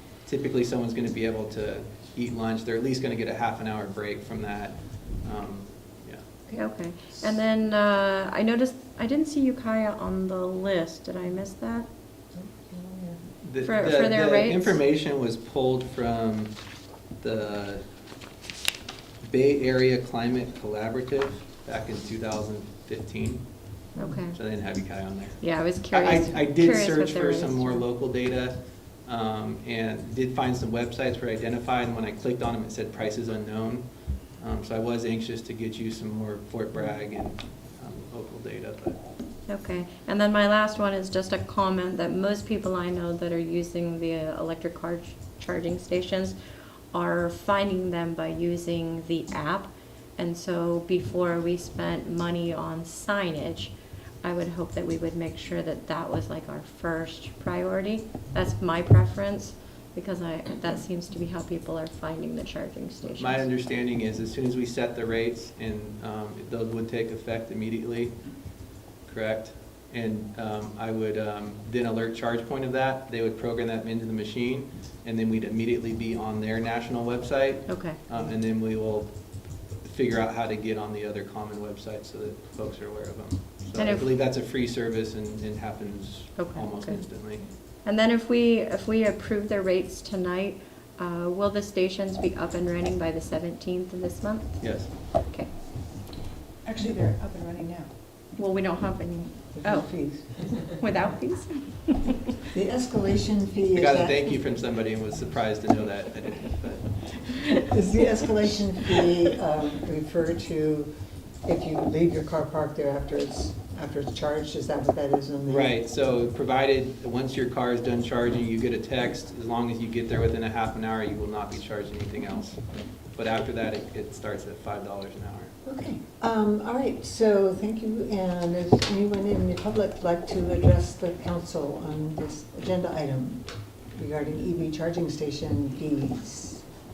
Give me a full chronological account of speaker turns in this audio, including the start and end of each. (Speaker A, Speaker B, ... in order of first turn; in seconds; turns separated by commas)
Speaker A: 0.3-6.2, Speaker B: 6.5-7.3, Speaker C: 6.6-11.9, Speaker B: 12.3-13.2, Speaker A: 13.4-16.5, Speaker C: 13.6-14.8, Speaker A: 17.2-17.9, Speaker A: 19.2-23.4, Speaker B: 24.0-24.2, Speaker C: 24.0-24.4, Speaker A: 24.3-33.9, Speaker C: 25.4-27.8, Speaker A: 34.4-39.0, Speaker C: 39.5-46.4, Speaker C: 46.9-63.5, Speaker A: 63.1-68.2, Speaker A: 69.1-79.2, Speaker C: 77.7-78.0, Speaker A: 79.8-87.5, Speaker C: 83.8-84.1, Speaker C: 86.4-87.0, Speaker C: 87.8-95.5, Speaker A: 94.6-94.9, Speaker B: 96.7-97.9, Speaker C: 98.3-102.1, Speaker B: 99.5-100.8, Speaker B: 102.5-104.4, Speaker A: 103.8-107.6, Speaker B: 107.6-110.9, Speaker B: 111.5-115.8, Speaker A: 115.5-125.5, Speaker B: 125.7-136.7